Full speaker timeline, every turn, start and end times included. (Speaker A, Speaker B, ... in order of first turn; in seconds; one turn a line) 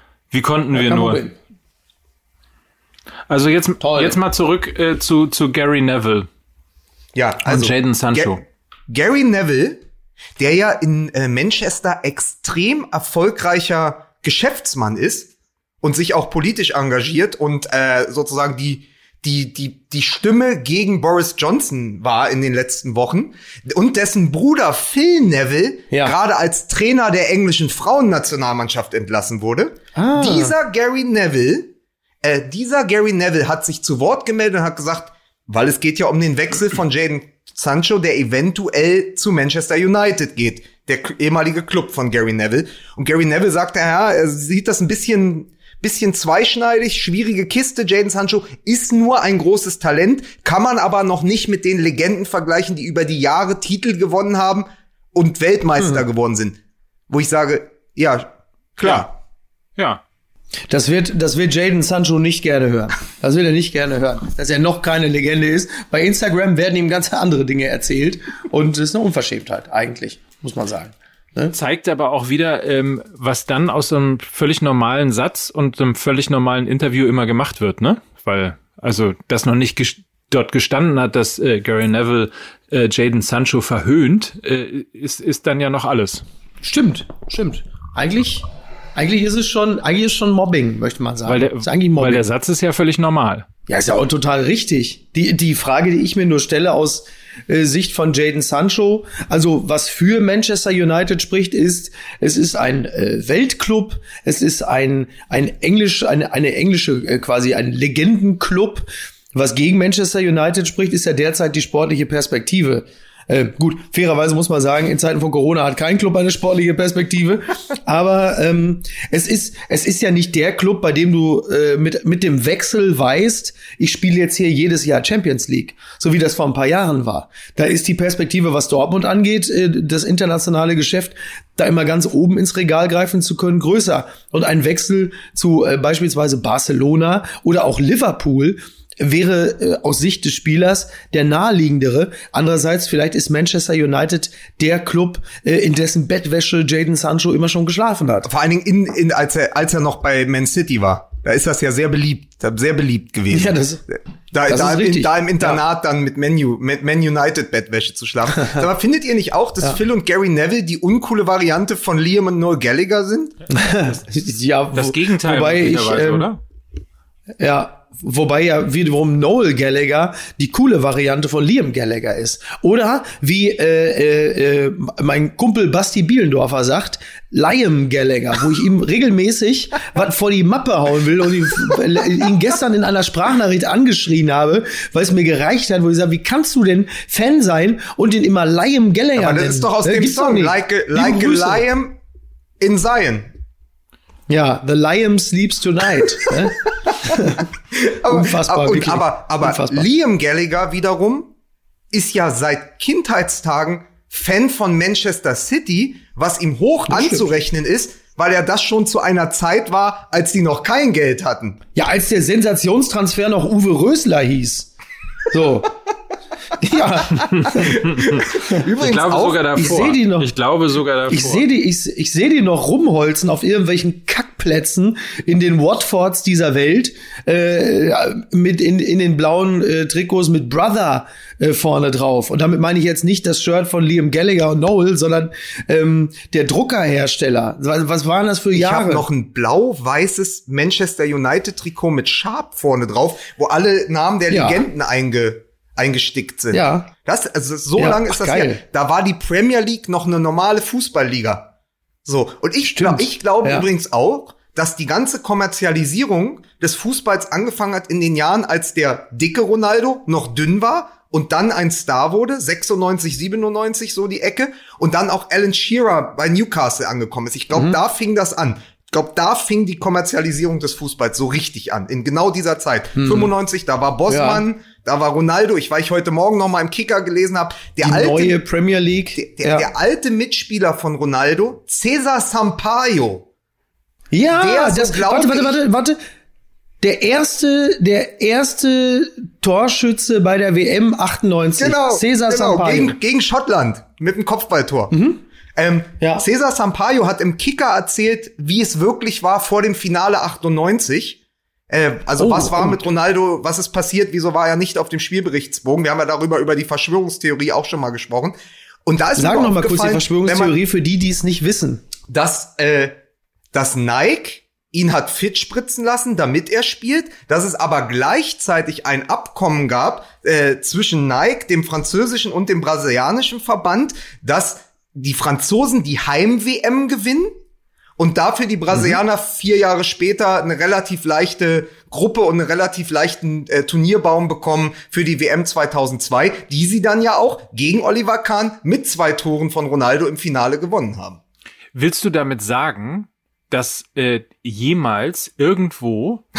Speaker A: 0.3-1.2
Speaker B: 0.7-1.4
Speaker A: 3.3-6.3
Speaker B: 3.8-4.2
Speaker C: 7.2-9.8
Speaker A: 7.4-8.4
Speaker C: 10.4-15.3
Speaker C: 15.8-31.7
Speaker B: 25.9-26.1
Speaker B: 30.0-30.6
Speaker C: 32.2-56.6
Speaker C: 57.1-59.1
Speaker A: 59.8-60.0
Speaker B: 60.7-71.5
Speaker A: 71.5-86.2
Speaker B: 86.6-88.4
Speaker B: 89.0-92.2
Speaker A: 91.3-93.5
Speaker B: 93.7-148.3
Speaker C: 148.2-163.4
Speaker B: 153.3-153.8
Speaker B: 154.5-155.6
Speaker B: 163.5-166.3
Speaker A: 164.8-166.4
Speaker B: 167.4-191.6
Speaker C: 189.2-192.0
Speaker C: 192.6-193.3
Speaker B: 194.3-197.4
Speaker C: 197.7-201.3
Speaker B: 198.1-199.9
Speaker C: 201.9-211.6
Speaker B: 206.9-207.2
Speaker B: 211.8-214.7
Speaker B: 215.3-215.7
Speaker B: 216.6-217.9
Speaker C: 217.9-219.6
Speaker A: 218.7-221.4
Speaker B: 219.6-220.3
Speaker B: 221.1-239.1
Speaker C: 238.6-251.5
Speaker B: 244.3-244.6
Speaker B: 246.5-246.9
Speaker B: 247.8-248.6
Speaker C: 252.1-278.4
Speaker B: 252.7-253.7
Speaker B: 267.5-267.8
Speaker B: 272.9-273.3
Speaker B: 274.1-274.4
Speaker B: 277.8-279.7
Speaker C: 279.1-283.2
Speaker B: 284.1-286.0
Speaker C: 284.3-285.6
Speaker B: 286.8-292.9
Speaker C: 291.6-294.9
Speaker B: 294.9-295.2
Speaker C: 295.6-301.2
Speaker B: 296.0-296.2
Speaker C: 301.7-308.3
Speaker B: 302.2-302.8
Speaker C: 308.9-310.5
Speaker B: 309.2-311.8
Speaker C: 312.1-312.9
Speaker C: 313.5-327.3
Speaker C: 328.0-341.2
Speaker A: 341.8-346.2